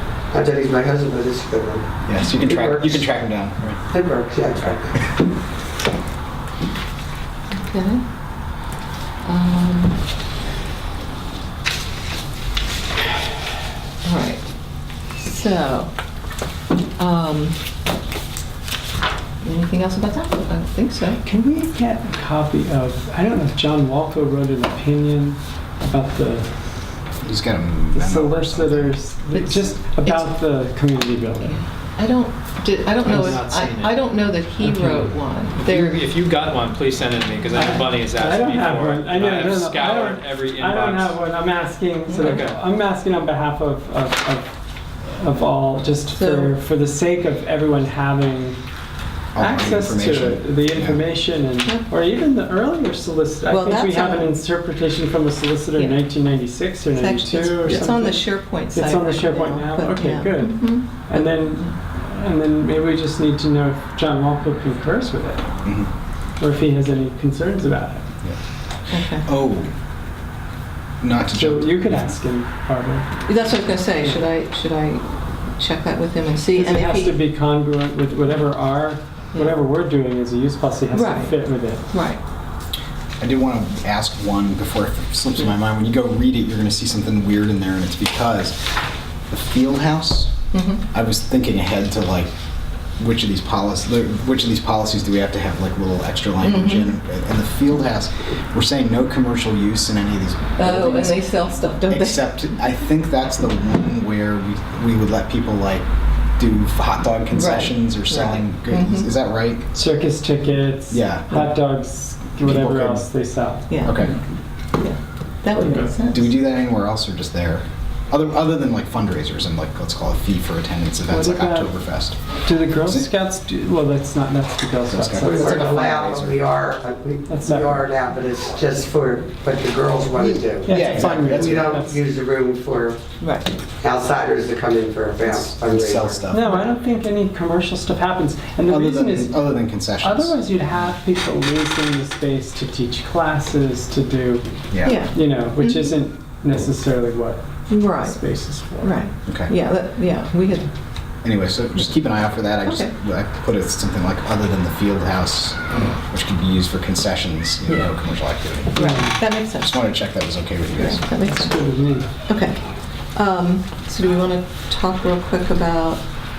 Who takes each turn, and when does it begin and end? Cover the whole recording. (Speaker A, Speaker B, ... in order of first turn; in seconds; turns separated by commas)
Speaker A: 0.3-1.9, Speaker B: 2.0-3.8, Speaker A: 2.4-3.1, Speaker A: 3.9-5.0, Speaker C: 7.5-8.0, Speaker C: 9.2-10.0, Speaker C: 14.0-14.4, Speaker C: 15.2-15.9, Speaker C: 17.0-17.6, Speaker C: 19.4-21.2, Speaker D: 21.2-26.5, Speaker B: 27.2-29.0, Speaker D: 27.9-31.6, Speaker C: 29.3-30.3, Speaker C: 32.0-36.0, Speaker E: 33.0-34.0, Speaker D: 33.1-33.3, Speaker D: 34.6-35.1, Speaker E: 35.5-41.2, Speaker D: 37.5-48.6, Speaker C: 42.1-42.4, Speaker E: 42.2-42.6, Speaker C: 46.1-46.5, Speaker B: 49.3-51.0, Speaker D: 49.4-65.5, Speaker C: 53.5-54.3, Speaker C: 56.9-61.2, Speaker D: 66.4-68.0, Speaker C: 68.9-69.2, Speaker B: 69.1-69.7, Speaker B: 71.0-72.1, Speaker D: 71.3-73.1, Speaker C: 73.2-75.0, Speaker D: 74.0-74.2, Speaker C: 75.6-77.2, Speaker D: 76.5-81.9, Speaker C: 80.9-82.2, Speaker B: 83.2-88.6, Speaker B: 89.3-92.3, Speaker C: 90.5-90.8, Speaker B: 93.0-101.1, Speaker C: 96.4-96.9, Speaker C: 100.6-102.2, Speaker B: 101.9-105.9, Speaker B: 106.4-109.7, Speaker C: 107.3-109.1, Speaker D: 109.7-114.1, Speaker B: 110.9-111.5, Speaker B: 112.4-113.1, Speaker C: 113.7-114.1, Speaker B: 113.8-114.2, Speaker C: 114.8-116.3, Speaker D: 115.6-115.9, Speaker B: 116.1-122.2, Speaker D: 121.0-121.7, Speaker D: 122.4-125.8, Speaker B: 122.8-123.1, Speaker B: 124.9-126.4, Speaker A: 125.2-133.0, Speaker D: 127.3-127.8, Speaker D: 130.6-132.0, Speaker B: 130.7-131.8, Speaker C: 133.2-133.5, Speaker A: 133.8-136.2, Speaker B: 135.2-136.5, Speaker D: 136.3-149.0, Speaker B: 138.6-140.9, Speaker B: 144.7-145.0, Speaker C: 144.8-145.9, Speaker C: 147.7-148.2, Speaker C: 148.8-150.7, Speaker B: 149.2-149.5, Speaker B: 151.2-158.8, Speaker C: 152.7-152.9, Speaker D: 158.7-159.2, Speaker C: 158.8-159.7, Speaker B: 159.6-161.0, Speaker C: 160.8-161.5, Speaker D: 161.1-162.1, Speaker C: 162.3-162.6, Speaker C: 163.1-166.0